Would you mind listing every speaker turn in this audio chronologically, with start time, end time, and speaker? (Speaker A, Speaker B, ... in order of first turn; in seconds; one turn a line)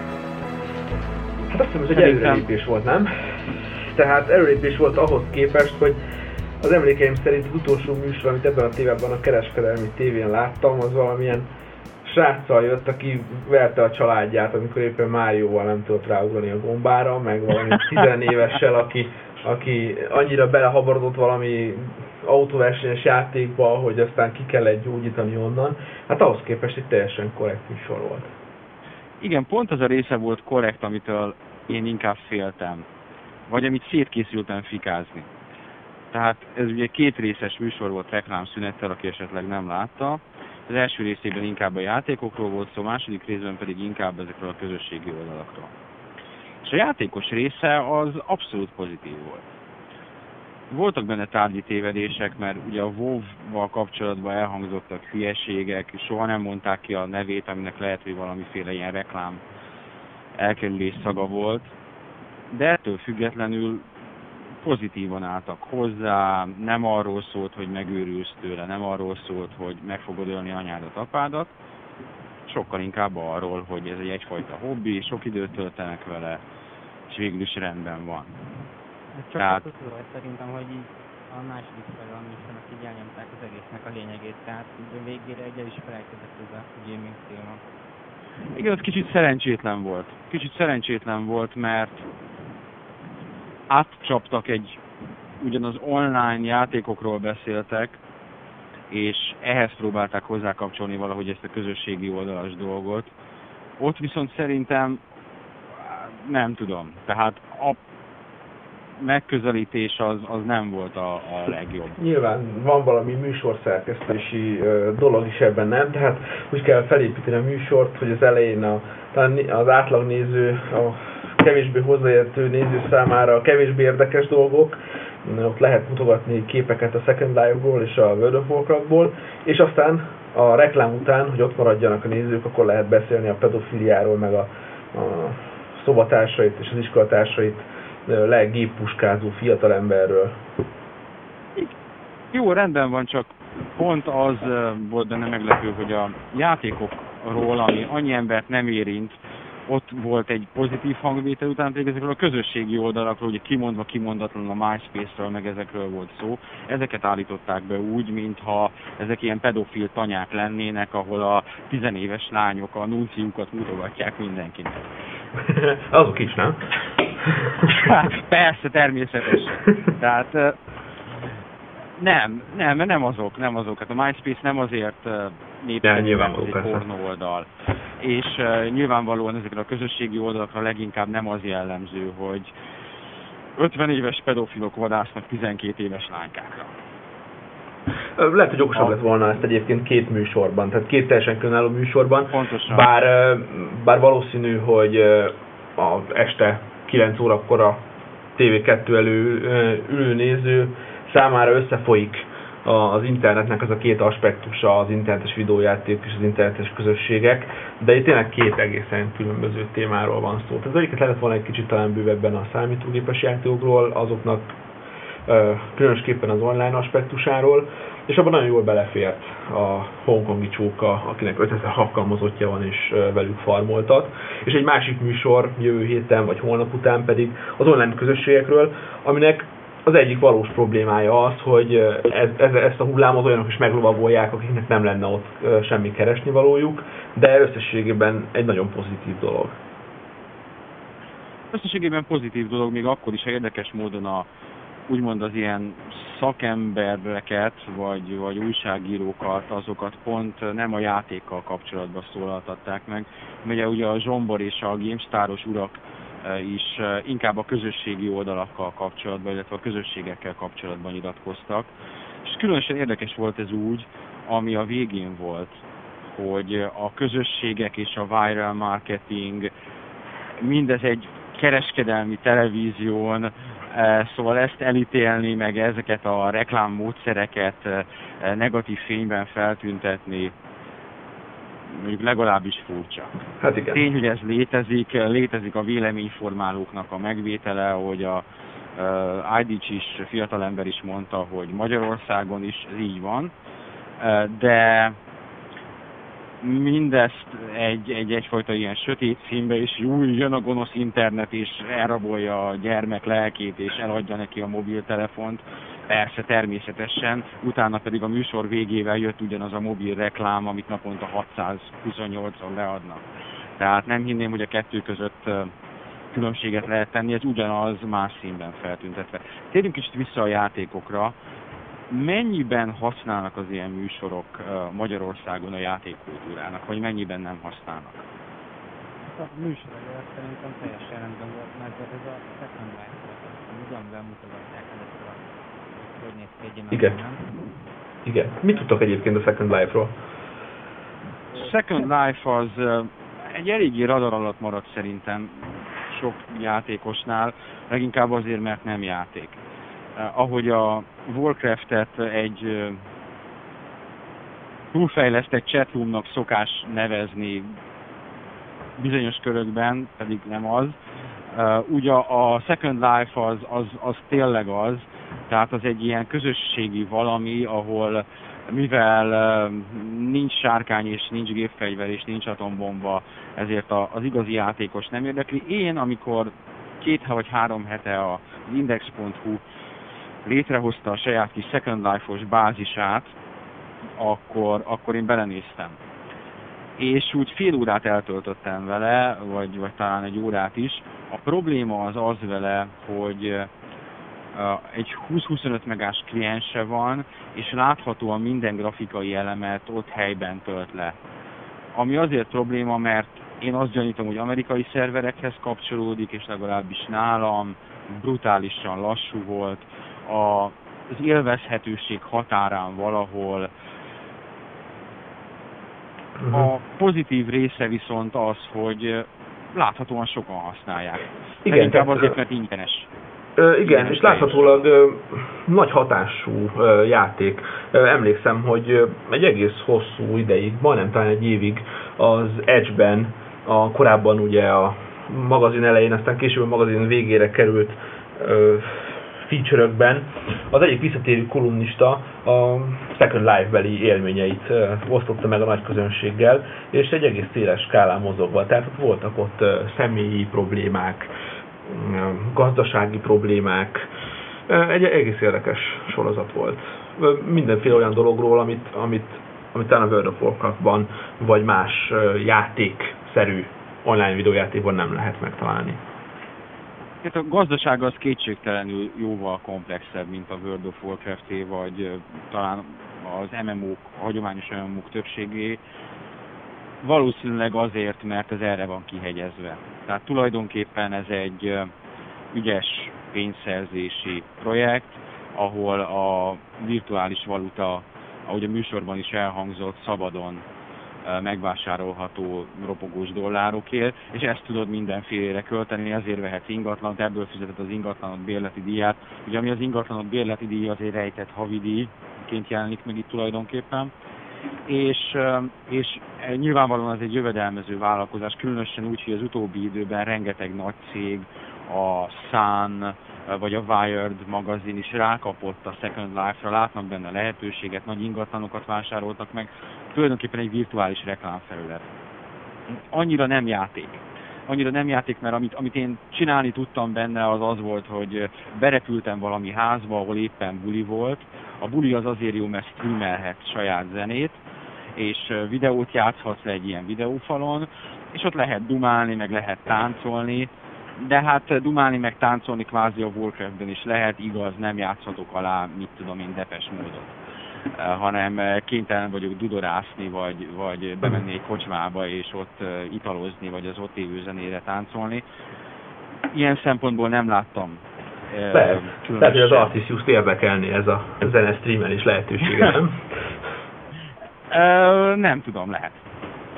Speaker A: 1.5-6.0
Speaker B: 1.9-2.5
Speaker A: 6.6-11.5
Speaker A: 12.0-28.3
Speaker B: 29.2-32.9
Speaker B: 33.5-35.3
Speaker B: 36.1-45.7
Speaker B: 46.6-49.5
Speaker B: 50.7-59.4
Speaker B: 60.4-61.7
Speaker B: 62.5-63.9
Speaker B: 64.6-71.5
Speaker B: 72.4-76.4
Speaker B: 77.1-78.4
Speaker C: 79.2-87.6
Speaker B: 79.4-79.6
Speaker B: 88.5-92.1
Speaker B: 93.7-94.8
Speaker B: 95.4-98.0
Speaker B: 98.9-103.1
Speaker B: 103.8-105.0
Speaker B: 105.7-107.8
Speaker B: 109.0-112.0
Speaker A: 112.0-140.4
Speaker B: 142.3-164.9
Speaker A: 165.4-166.6
Speaker A: 167.2-167.7
Speaker B: 167.6-170.6
Speaker B: 172.0-182.5
Speaker A: 175.8-176.8
Speaker B: 183.6-186.7
Speaker A: 188.2-197.8
Speaker B: 192.3-192.9
Speaker A: 198.3-214.5
Speaker A: 215.3-239.5
Speaker B: 241.5-244.3
Speaker B: 244.9-261.7
Speaker B: 262.2-269.5
Speaker B: 270.4-280.3
Speaker B: 281.7-283.1
Speaker A: 283.4-283.8
Speaker B: 283.7-288.2
Speaker B: 288.8-293.3
Speaker B: 294.0-295.0
Speaker B: 296.4-313.0
Speaker B: 313.6-315.5
Speaker B: 316.1-321.1
Speaker B: 321.9-328.1
Speaker C: 329.1-337.2
Speaker A: 336.7-337.0
Speaker A: 338.1-339.9
Speaker B: 341.3-349.4
Speaker B: 349.9-352.8
Speaker B: 354.7-357.5
Speaker B: 358.8-360.8
Speaker B: 361.3-379.4
Speaker B: 380.2-383.1
Speaker B: 384.0-385.8
Speaker B: 386.8-393.5
Speaker B: 394.3-401.0
Speaker B: 401.8-413.5
Speaker A: 416.2-416.5
Speaker B: 416.3-422.9
Speaker A: 421.4-422.2
Speaker A: 423.4-451.1
Speaker B: 423.6-424.7
Speaker A: 451.7-453.9
Speaker A: 454.5-465.8
Speaker B: 467.0-475.6
Speaker B: 476.8-481.7
Speaker B: 482.3-490.4
Speaker B: 491.1-503.9
Speaker B: 504.7-521.9
Speaker B: 522.7-534.4
Speaker B: 535.0-547.1
Speaker B: 547.8-555.2
Speaker B: 556.3-559.7
Speaker A: 558.5-563.1
Speaker B: 564.5-566.0